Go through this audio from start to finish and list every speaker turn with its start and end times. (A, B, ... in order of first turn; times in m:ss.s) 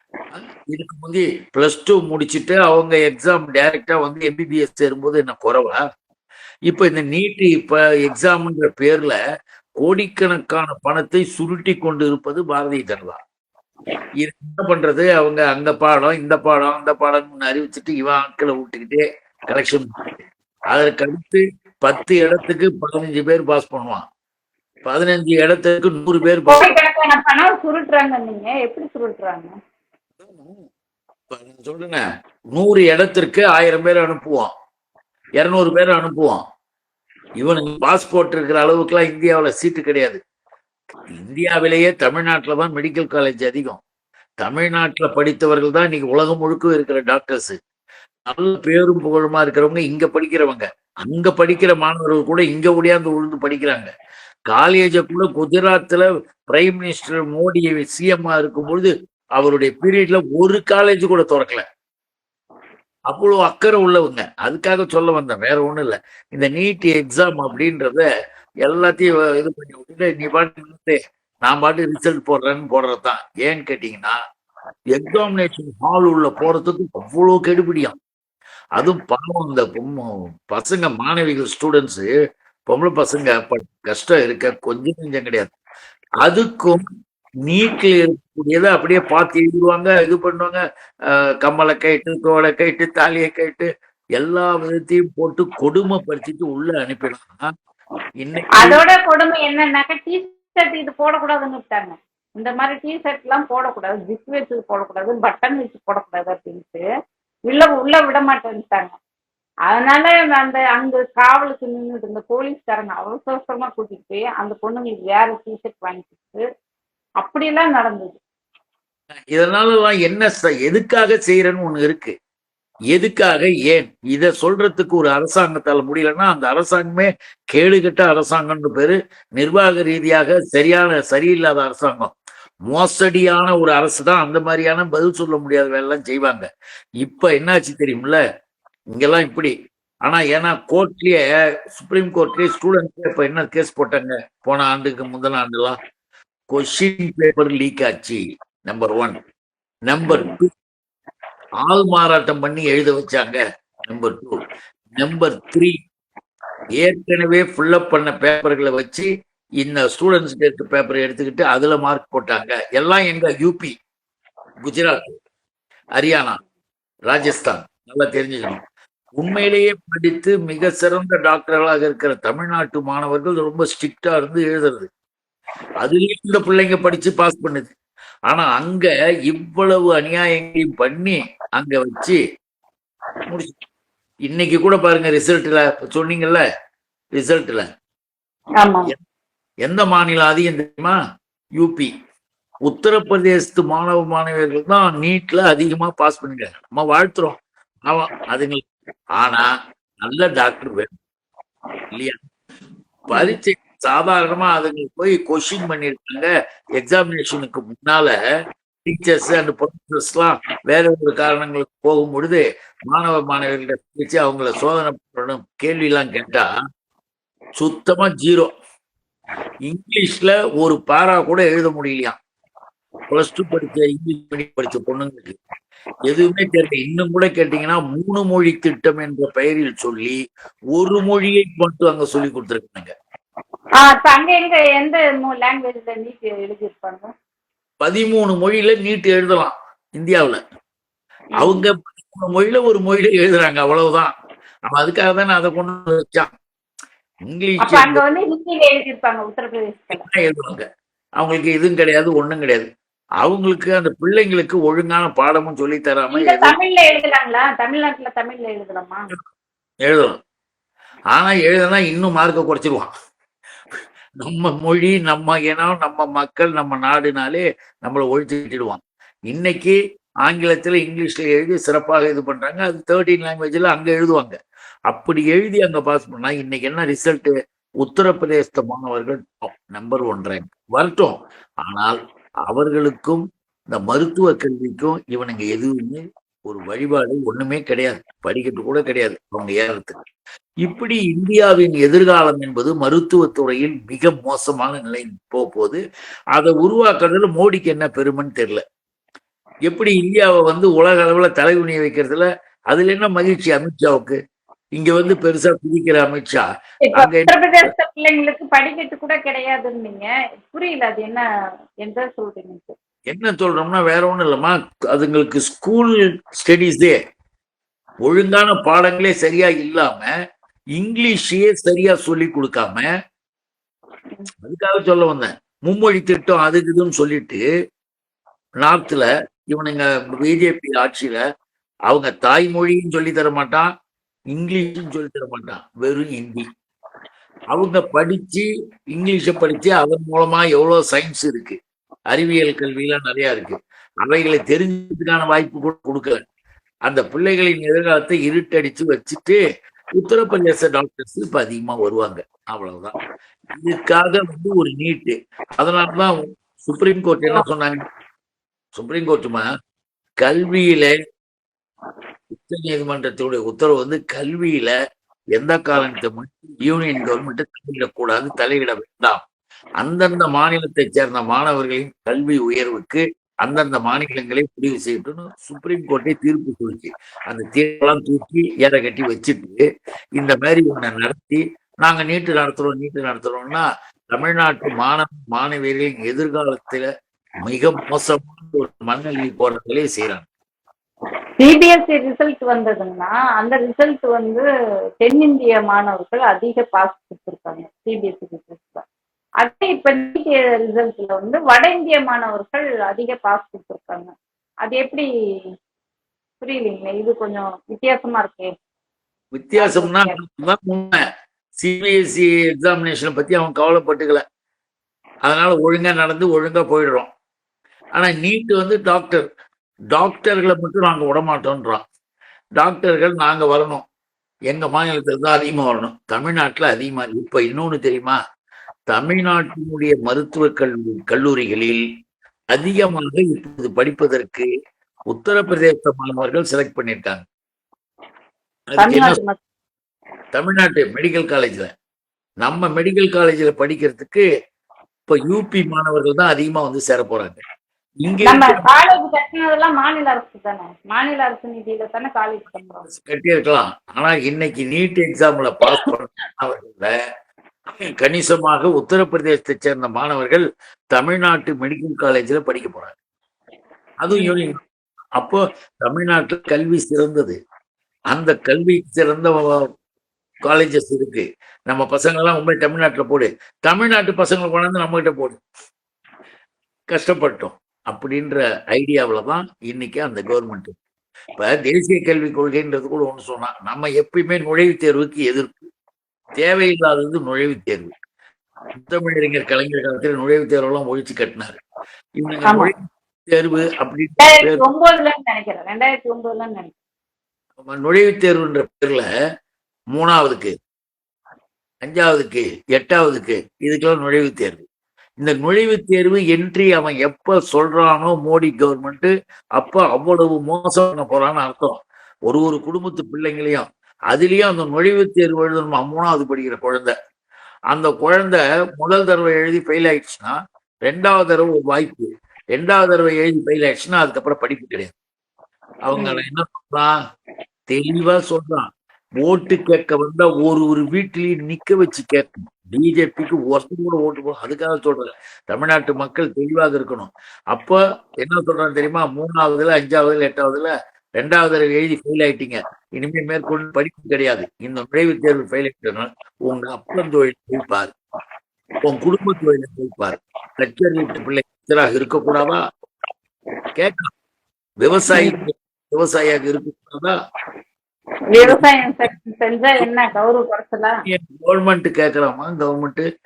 0:00.3-0:05.8 A
0:06.7-0:09.1 A
0:09.8-0:13.2 A
0:14.2-0:20.0 A
0:20.7-0:24.0 A
0:24.8-0:26.7 A
0:26.4-0:29.5 B
0:30.2-0:30.7 A
0:31.3-0:32.0 A
0:32.5-0:34.5 A
0:35.4-0:36.4 A
0:37.4-0:40.2 A
0:41.2-0:43.8 A
0:44.4-0:47.6 A
0:48.3-0:53.9 A
0:54.5-1:01.6 A
1:03.1-1:08.0 A
1:08.6-1:14.2 A
1:14.9-1:18.0 A
1:18.8-1:22.1 A
1:22.7-1:25.5 A
1:26.2-1:26.8 A
1:27.5-1:37.4 A
1:38.2-1:38.8 A
1:38.6-1:46.8 B
1:47.5-1:48.9 B
1:49.7-1:56.4 B
1:57.2-1:58.2 B
1:59.3-2:02.1 A
2:02.9-2:12.1 A
2:12.7-2:16.4 A
2:17.0-2:18.2 A
2:18.9-2:19.5 A
2:20.0-2:21.2 A
2:21.7-2:25.8 A
2:26.5-2:29.2 A
2:29.9-2:30.5 A
2:30.1-2:30.3 B
2:31.6-2:34.4 A
2:35.0-2:35.7 A
2:36.8-2:39.1 A
2:39.6-2:43.7 A
2:44.6-2:45.1 A
2:46.0-2:46.4 A
2:47.1-2:48.6 A
2:49.2-2:54.9 A
2:55.8-2:57.7 A
2:58.3-3:02.2 A
3:03.3-3:03.5 A
3:04.3-3:06.4 A
3:07.2-3:07.6 A
3:08.6-3:08.9 B
3:09.6-3:11.0 A
3:11.6-3:11.9 A
3:12.7-3:18.6 A
3:19.2-3:19.5 A
3:20.0-3:20.9 A
3:23.1-3:26.3 A
3:23.1-3:23.4 B
3:26.8-3:28.1 A
3:28.8-3:36.5 A
3:37.6-3:38.5 A
3:39.6-3:42.2 A
3:43.1-3:45.4 A
3:46.1-3:50.2 A
3:50.7-3:52.9 A
3:53.8-3:57.1 B
3:57.8-4:00.4 A
4:01.4-4:04.1 A
4:01.4-4:01.6 B
4:04.7-4:06.3 A
4:07.3-4:08.0 A
4:07.6-4:10.0 B
4:09.9-4:10.6 A
4:11.2-4:12.7 A
4:13.2-4:16.5 A
4:16.1-4:19.1 B
4:19.8-4:20.1 A
4:21.1-4:22.9 A
4:24.2-4:34.4 A
4:34.9-4:42.0 A
4:42.5-4:50.0 A
4:50.6-4:55.8 A
4:56.3-4:58.6 A
4:59.7-5:04.2 A
5:04.8-5:06.4 A
5:06.8-5:11.2 B
5:06.9-5:07.7 A
5:11.8-5:12.7 B
5:13.1-5:17.0 A
5:18.0-5:20.1 A
5:20.8-5:22.9 A
5:24.4-5:27.4 A
5:28.6-5:31.2 A
5:31.9-5:33.7 A
5:34.3-5:36.4 A
5:37.5-5:41.6 A
5:42.1-5:46.2 A
5:46.9-5:49.4 A
5:50.0-5:52.9 A
5:53.5-5:57.8 A
5:58.7-5:59.4 A
6:00.2-6:00.9 A
6:02.4-6:04.7 A
6:05.3-6:09.2 A
6:09.8-6:19.6 A
6:20.2-6:26.9 A
6:27.4-6:30.2 A
6:31.4-6:34.4 B
6:35.0-6:38.8 B
6:39.4-6:44.1 B
6:44.6-6:45.1 B
6:46.4-6:48.5 B
6:49.3-6:51.0 A
6:49.6-6:50.2 B
6:51.6-6:54.2 A
6:55.2-6:57.1 A
6:58.0-6:59.2 A
6:59.9-7:01.8 A
7:02.6-7:03.8 A
7:04.5-7:08.2 A
7:08.9-7:11.8 A
7:12.5-7:14.5 A
7:15.1-7:17.2 A
7:18.7-7:19.2 A
7:18.8-7:19.4 B
7:20.3-7:21.7 A
7:22.4-7:24.2 A
7:25.1-7:27.4 A
7:28.0-7:28.7 A
7:28.2-7:32.8 B
7:32.9-7:36.9 A
7:37.8-7:43.0 A
7:44.0-7:44.6 A
7:44.1-7:44.4 B
7:45.2-7:47.4 A
7:48.1-7:49.6 A
7:50.4-7:55.4 A
7:56.9-8:00.8 A
8:01.4-8:05.7 A
8:06.4-8:07.9 A
8:08.8-8:11.6 A
8:12.2-8:14.6 A
8:12.4-8:12.7 B
8:14.2-8:16.7 B
8:17.6-8:19.0 A
8:19.9-8:20.5 A
8:21.8-8:24.6 A
8:25.2-8:36.9 A
8:37.7-8:44.9 A
8:45.8-8:46.9 A
8:45.9-8:46.2 B
8:47.7-8:48.7 A
8:49.2-9:07.9 A
9:08.8-9:12.6 A
9:13.8-9:14.1 A
9:14.8-9:17.1 A
9:15.1-9:15.4 B
9:18.3-9:21.0 B
9:18.4-9:18.9 A
9:21.0-9:23.0 A